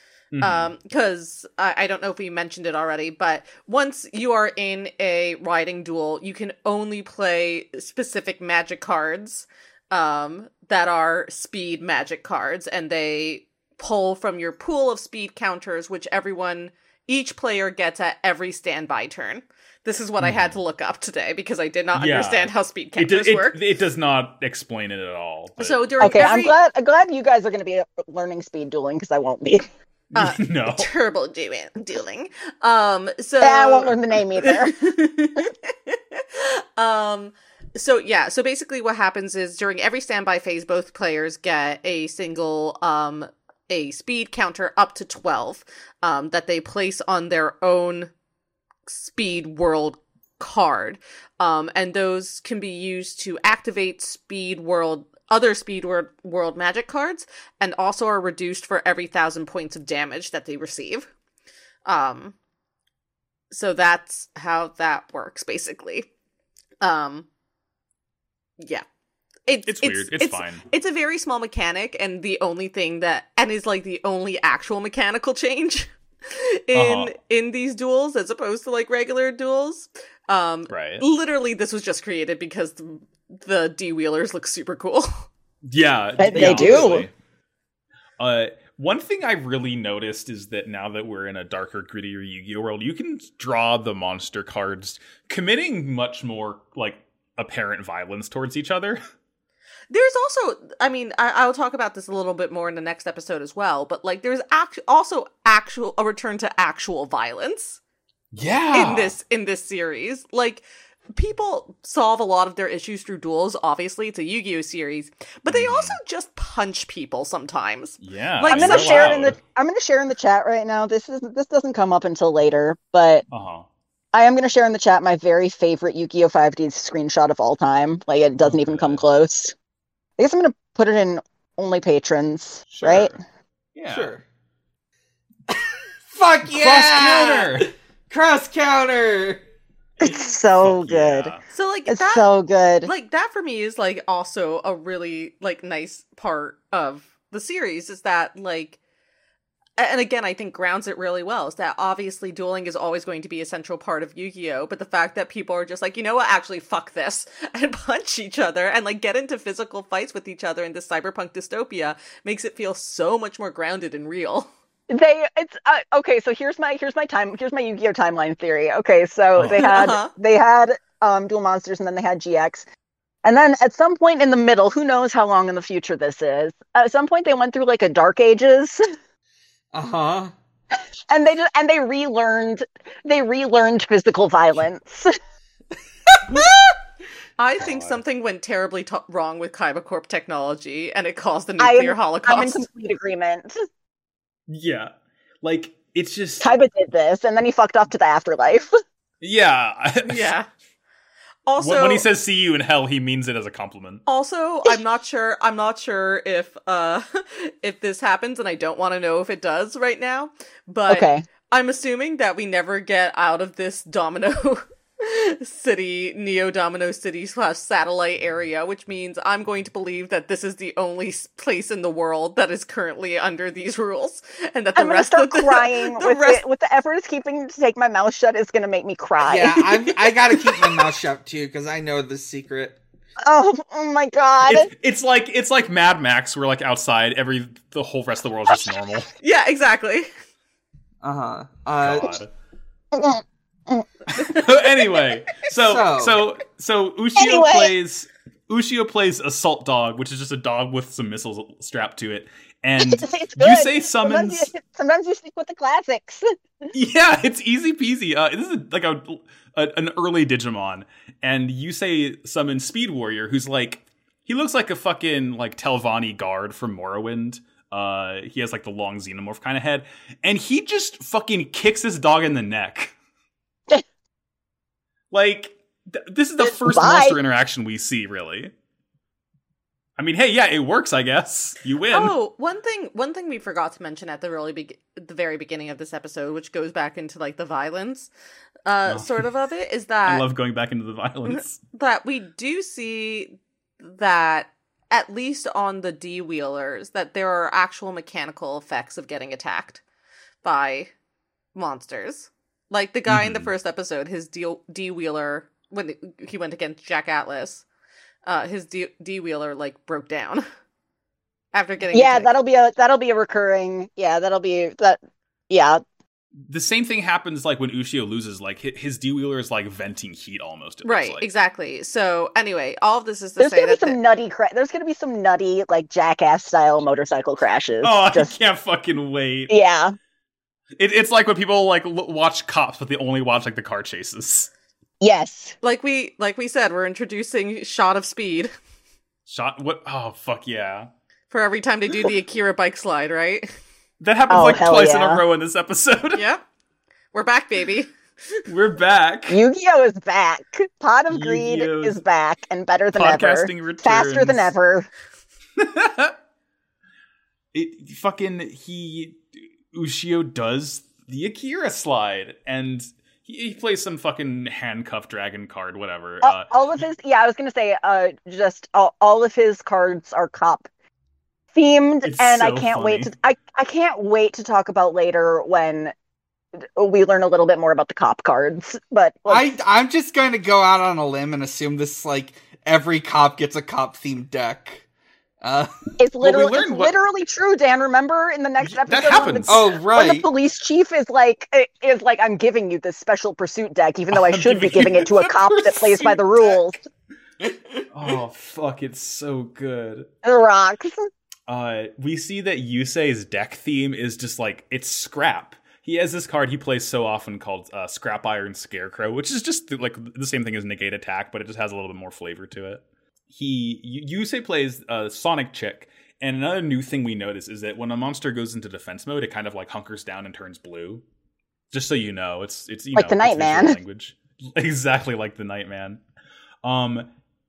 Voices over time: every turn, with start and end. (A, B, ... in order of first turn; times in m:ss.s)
0:00.3-0:00.7 A
0:00.4-0:23.6 B
0:20.2-0:20.6 A
0:21.9-0:26.3 A
0:25.6-0:26.6 B
0:26.0-0:29.7 C
0:30.1-0:30.9 A
0:30.1-0:48.1 B
0:33.4-0:34.9 C
0:48.9-1:01.1 B
1:01.9-1:02.3 B
1:03.5-1:06.1 B
1:06.8-1:07.2 B
1:09.5-1:25.2 B
1:09.7-1:10.6 A
1:16.7-1:17.1 A
1:20.7-1:21.0 A
1:25.6-1:27.1 A
1:26.2-1:27.1 C
1:26.4-1:26.9 D
1:28.2-1:39.0 A
1:39.9-1:47.8 B
1:48.3-1:49.1 A
1:48.7-1:59.2 B
1:55.5-1:56.0 A
1:58.0-1:59.4 A
1:58.5-2:03.2 C
2:03.3-2:03.7 A
2:04.1-2:09.5 C
2:08.4-2:09.0 A
2:10.2-2:13.1 C
2:12.7-2:13.1 A
2:13.7-2:14.1 A
2:13.9-2:14.2 D
2:15.5-2:19.4 D
2:16.5-2:17.7 A
2:20.0-2:21.3 C
2:20.6-2:21.4 A
2:21.5-2:22.2 B
2:21.9-2:22.9 C
2:22.8-2:28.8 B
2:29.8-2:44.5 B
2:44.9-2:52.6 C
2:49.4-2:49.7 A
2:49.6-2:50.1 B
2:53.2-2:58.8 C
2:59.7-3:00.3 D
3:01.1-3:05.1 C
3:07.4-3:12.6 B
3:07.6-3:08.0 A
3:11.6-3:13.6 C
3:14.5-3:14.9 A
3:15.4-3:16.5 A
3:16.4-3:18.7 C
3:19.2-3:20.3 A
3:20.0-3:20.5 B
3:21.4-3:22.0 B
3:21.6-3:24.0 A
3:24.0-3:46.4 B
3:30.9-3:31.2 C
3:44.8-3:49.6 C
3:49.2-3:52.8 D
3:53.2-3:54.7 C
3:54.4-3:59.1 A
3:59.2-4:00.1 B
4:01.0-4:02.1 D
4:01.8-4:02.3 A
4:02.9-4:03.9 C
4:04.1-4:14.5 A
4:05.6-4:06.2 D
4:07.2-4:07.7 C
4:12.8-4:16.2 C
4:16.7-4:32.9 A
4:35.1-4:38.5 A
4:36.4-4:37.2 C
4:40.0-4:42.1 A
4:41.9-4:48.1 B
4:48.6-4:50.2 B
4:48.9-4:49.2 A
4:50.0-4:51.6 A
4:51.3-4:59.8 B
5:00.4-5:00.9 B
5:01.6-5:07.6 B
5:03.1-5:03.5 A
5:08.2-5:10.4 B
5:11.5-5:12.3 B
5:11.9-5:15.8 C
5:16.5-5:21.3 A
5:20.8-5:24.0 B
5:23.4-5:28.3 C
5:27.8-5:29.5 A
5:29.5-5:29.9 C
5:30.8-5:34.5 A
5:35.0-5:35.6 C
5:35.6-5:38.5 B
5:39.3-5:40.9 A
5:41.3-5:43.5 B
5:44.0-5:46.2 A
5:44.3-5:45.2 C
5:46.1-5:46.4 B
5:47.1-5:48.4 B
5:48.5-5:49.4 A
5:49.3-5:54.9 C
5:51.1-5:52.0 A
5:52.9-5:54.5 A
5:55.6-5:56.1 A
5:57.5-6:06.5 A
6:06.2-6:10.7 C
6:11.5-6:15.9 C
6:12.0-6:13.1 A
6:16.6-6:19.6 C
6:19.3-6:24.8 D
6:25.4-6:25.7 D
6:26.0-6:36.8 C
6:26.2-6:26.9 A
6:28.6-6:29.7 A
6:29.5-6:30.3 D
6:34.1-6:36.6 A
6:37.9-6:40.1 A
6:40.2-6:41.1 C
6:41.5-7:01.0 A
7:01.7-7:06.0 A
7:02.9-7:03.8 C
7:06.6-7:07.1 A